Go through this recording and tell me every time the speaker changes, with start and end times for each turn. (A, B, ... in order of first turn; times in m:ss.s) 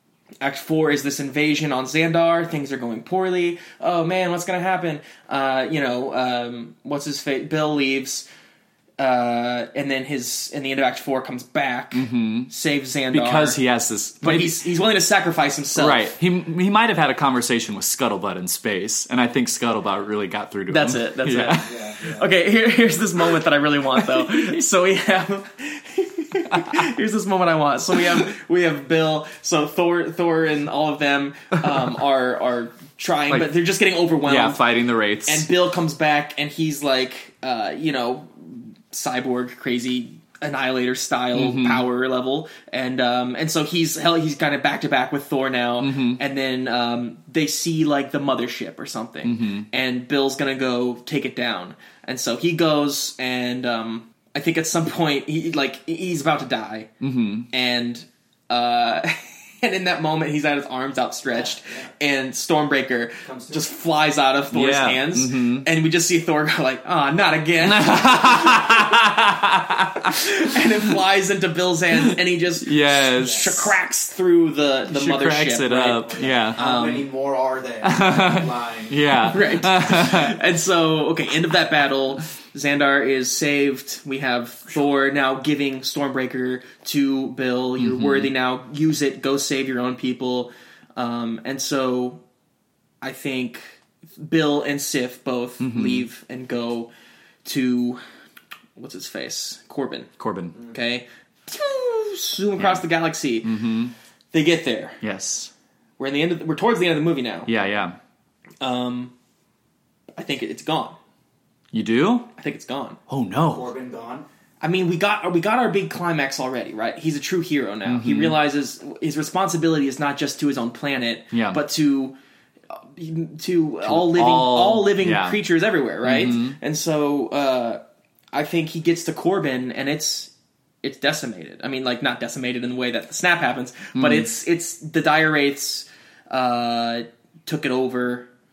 0:00.4-0:08.2 A
0:09.0-0:13.6 A
0:11.9-0:12.5 B
0:13.1-0:14.6 B
0:14.2-0:16.1 A
0:15.7-0:21.8 B
0:20.7-0:34.6 A
0:21.5-0:22.3 C
0:26.5-0:26.8 B
0:34.2-0:35.5 B
0:35.2-0:56.9 A
0:41.3-0:41.8 B
0:45.8-0:46.2 B
0:49.2-0:49.7 B
0:57.0-0:57.5 B
0:57.5-1:08.9 A
1:01.4-1:01.9 C
1:03.2-1:03.6 C
1:04.5-1:05.7 B
1:07.6-1:10.3 B
1:10.0-1:17.0 A
1:12.6-1:13.7 B
1:13.2-1:13.4 C
1:14.9-1:16.6 B
1:16.1-1:19.1 C
1:17.8-1:20.4 B
1:19.2-1:32.2 A
1:27.8-1:28.3 B
1:33.0-1:36.9 A
1:35.6-1:36.0 B
1:37.4-1:38.0 A
1:38.8-1:40.1 A
1:40.2-1:40.6 B
1:40.7-1:43.5 A
1:42.6-1:42.8 B
1:43.4-1:43.9 B
1:44.3-1:45.0 A
1:45.0-1:45.5 B
1:46.0-1:47.5 A
1:47.5-1:48.0 B
1:48.6-1:49.1 A
1:50.1-1:51.0 A
1:51.7-1:52.3 B
1:52.3-1:53.0 A
1:53.1-1:53.7 B
1:53.4-1:54.2 C
1:54.6-2:02.1 A
1:57.8-1:58.4 B
2:01.3-2:01.6 B
2:02.7-2:07.8 A
2:03.8-2:05.4 B
2:06.0-2:06.6 B
2:08.3-2:10.3 A
2:10.8-2:18.3 A
2:13.9-2:14.3 B